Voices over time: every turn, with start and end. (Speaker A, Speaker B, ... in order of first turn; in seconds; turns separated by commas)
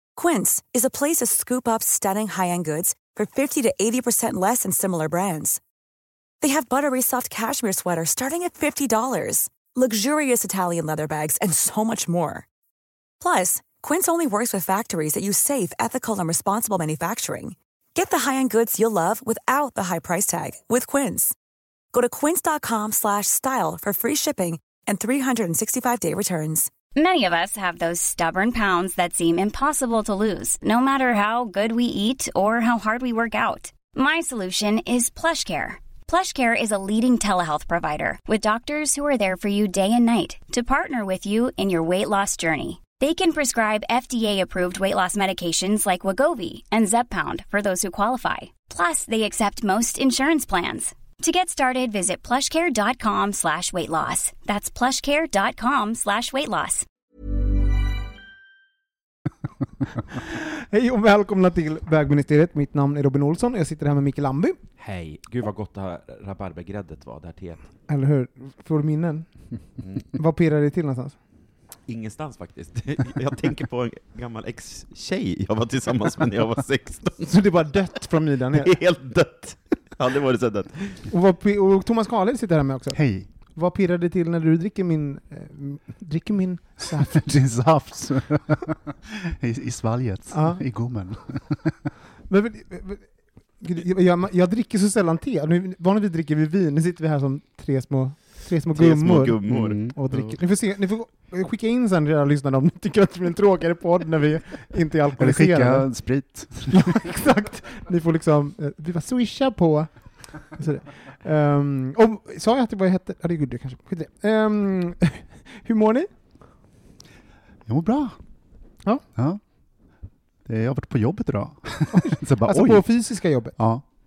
Speaker A: 0.2-5.6, Speaker A: 6.4-12.5, Speaker A: 13.2-21.4, Speaker A: 21.9-26.7, Speaker B: 27.0-56.9, Speaker C: 60.2-64.6, Speaker D: 64.8-67.7, Speaker C: 67.9-69.3, Speaker D: 69.8-70.1, Speaker C: 70.1-71.2, Speaker D: 71.9-77.3, Speaker C: 77.2-78.7, Speaker D: 78.5-81.1, Speaker C: 81.1-83.0, Speaker E: 82.9-83.3, Speaker C: 83.5-87.2, Speaker E: 86.8-91.8, Speaker C: 90.3-90.6, Speaker C: 92.3-105.9, Speaker D: 98.8-99.9, Speaker E: 99.5-100.3, Speaker E: 105.2-107.0, Speaker C: 106.7-116.1, Speaker E: 117.7-118.2, Speaker E: 119.2-119.4, Speaker E: 120.5-122.9, Speaker C: 121.9-123.6, Speaker E: 123.5-123.8